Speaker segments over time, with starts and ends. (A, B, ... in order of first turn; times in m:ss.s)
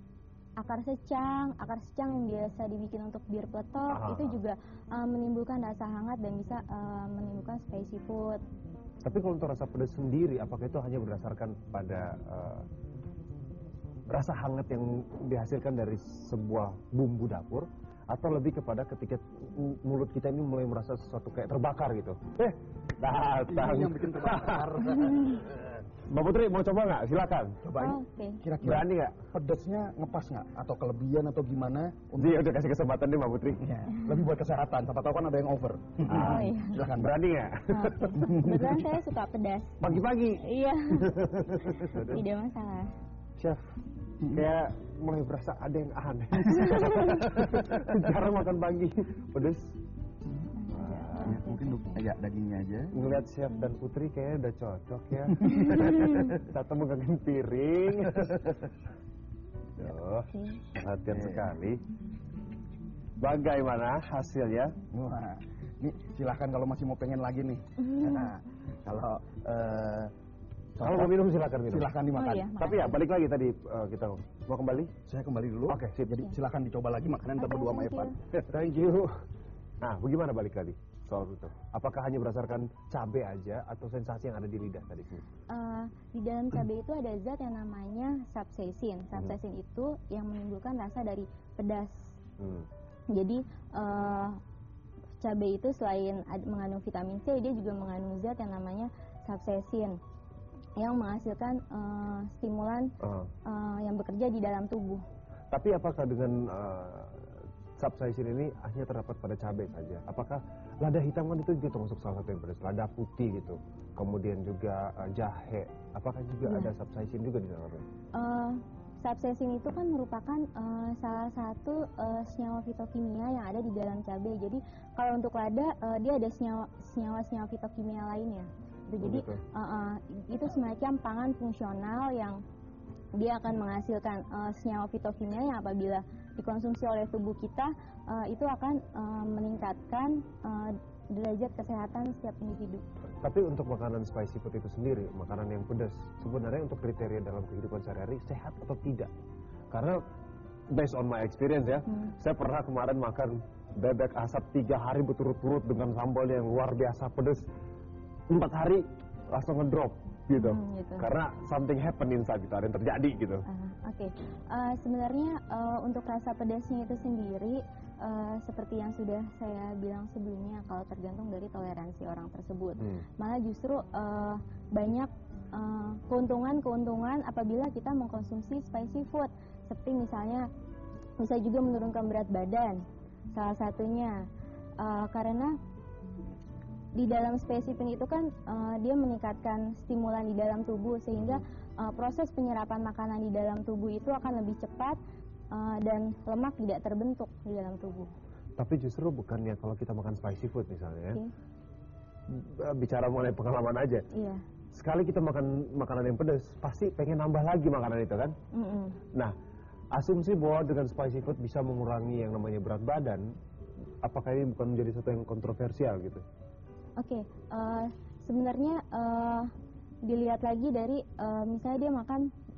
0:00.6-0:08.4 A
0:03.9-0:04.4 B
0:09.0-0:12.6 B
0:14.1-0:25.2 B
0:23.5-0:25.7 C
0:26.0-0:27.6 B
0:27.6-0:32.3 C
0:27.8-0:28.4 A
0:28.6-0:29.2 B
0:32.2-0:33.8 B
0:33.6-0:37.1 C
0:36.0-0:38.2 B
0:36.1-0:36.8 A
0:37.7-0:39.8 A
0:38.1-0:38.8 C
0:39.8-0:42.2 B
0:40.4-0:42.9 A
0:43.4-0:43.7 B
0:44.3-0:49.8 B
0:50.6-0:52.0 A
0:50.7-0:51.4 B
0:51.1-0:53.0 C
0:52.9-0:58.5 B
0:59.8-1:01.8 B
1:00.3-1:00.6 A
1:01.1-1:01.4 C
1:03.2-1:04.8 B
1:04.9-1:10.1 C
1:07.8-1:08.3 A
1:10.8-1:11.1 C
1:10.8-1:11.9 B
1:11.7-1:12.6 C
1:12.1-1:13.0 A
1:12.6-1:15.0 B
1:15.1-1:18.3 C
1:15.7-1:16.1 B
1:17.4-1:18.1 A
1:18.5-1:19.1 B
1:19.8-1:25.2 B
1:25.5-1:32.2 A
1:32.4-1:32.7 B
1:33.1-1:34.4 A
1:35.2-1:40.0 A
1:40.8-1:42.9 A
1:43.0-1:43.3 B
1:43.4-1:45.0 A
1:45.5-1:57.8 B
1:56.5-1:56.7 A
1:58.2-2:12.4 A
2:09.0-2:09.4 B
2:13.2-2:22.8 A
2:23.2-2:29.1 B
2:29.7-2:30.0 B
2:30.7-2:37.5 B
2:38.3-2:43.4 B
2:40.3-2:41.0 A
2:43.5-3:00.5 A
3:01.2-3:02.8 A
3:03.3-3:04.3 A
3:04.8-3:05.6 A
3:07.0-3:15.0 A
3:15.5-3:18.1 A
3:18.6-3:21.2 B
3:22.3-3:24.0 B
3:24.1-3:24.4 A
3:24.7-3:28.3 B
3:28.5-3:29.0 A
3:29.9-3:33.3 B
3:34.0-3:36.2 B
3:37.0-3:39.5 A
3:40.0-3:42.3 A